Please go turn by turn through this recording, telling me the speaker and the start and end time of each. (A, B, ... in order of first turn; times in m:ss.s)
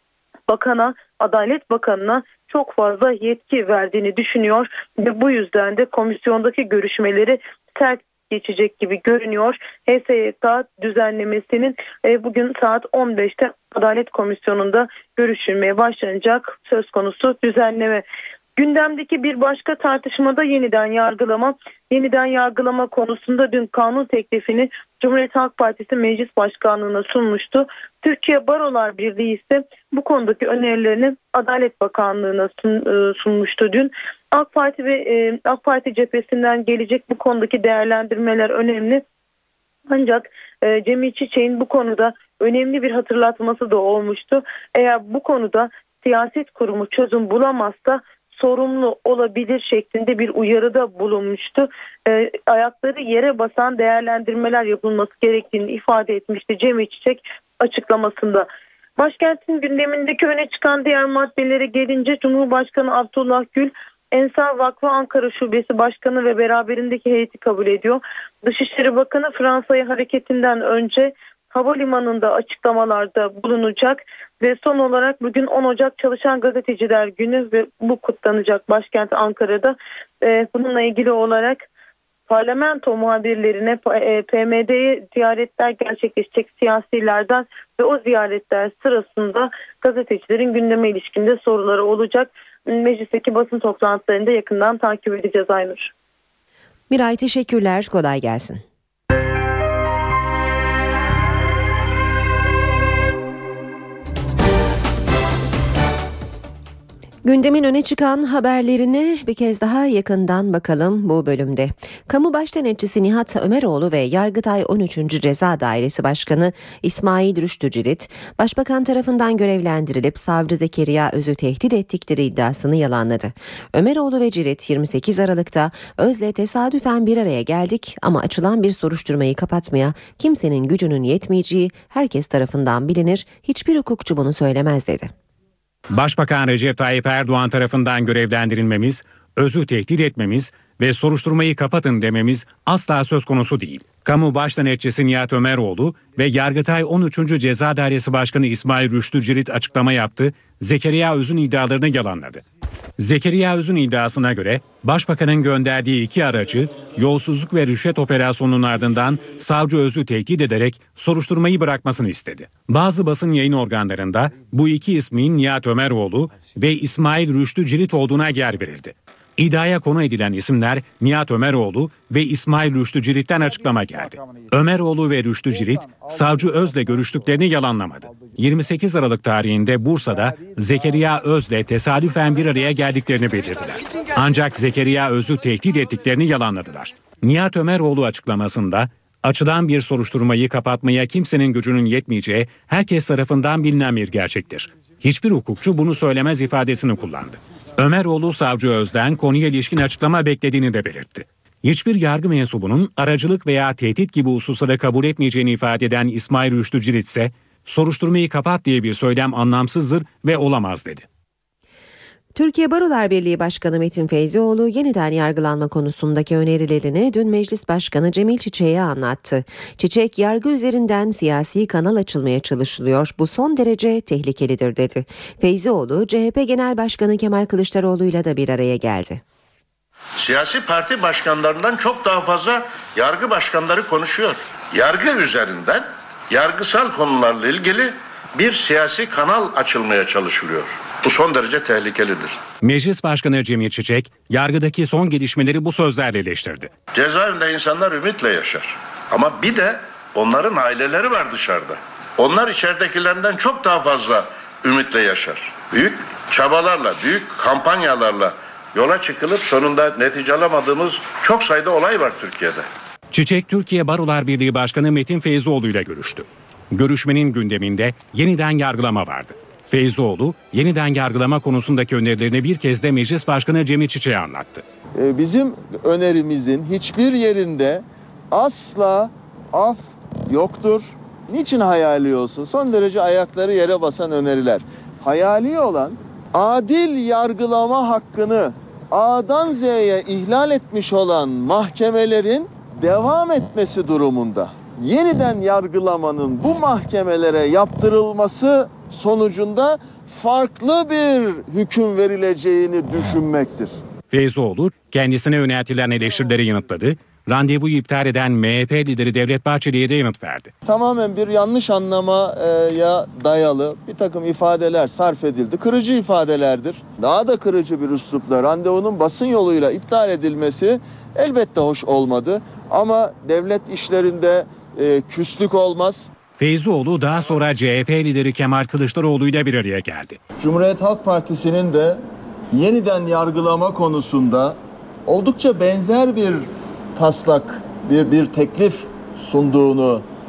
0:00.5-0:18.0 A
0:18.6-0:39.0 A
0:39.9-0:58.5 A
0:59.0-1:21.6 A
1:22.3-1:35.9 A
1:36.9-1:38.6 B
1:47.2-2:15.1 B
2:15.9-2:32.4 C
2:33.0-3:31.0 C
3:32.4-3:49.2 B
3:50.2-4:02.4 D
4:02.6-4:06.7 C
4:06.9-4:22.6 D
4:23.1-4:34.6 C
4:35.0-5:03.8 E
5:04.1-5:10.5 C
5:10.6-5:26.1 E
5:26.4-5:30.2 C
5:30.4-5:32.0 E
5:32.5-5:34.6 E
5:35.1-5:40.0 E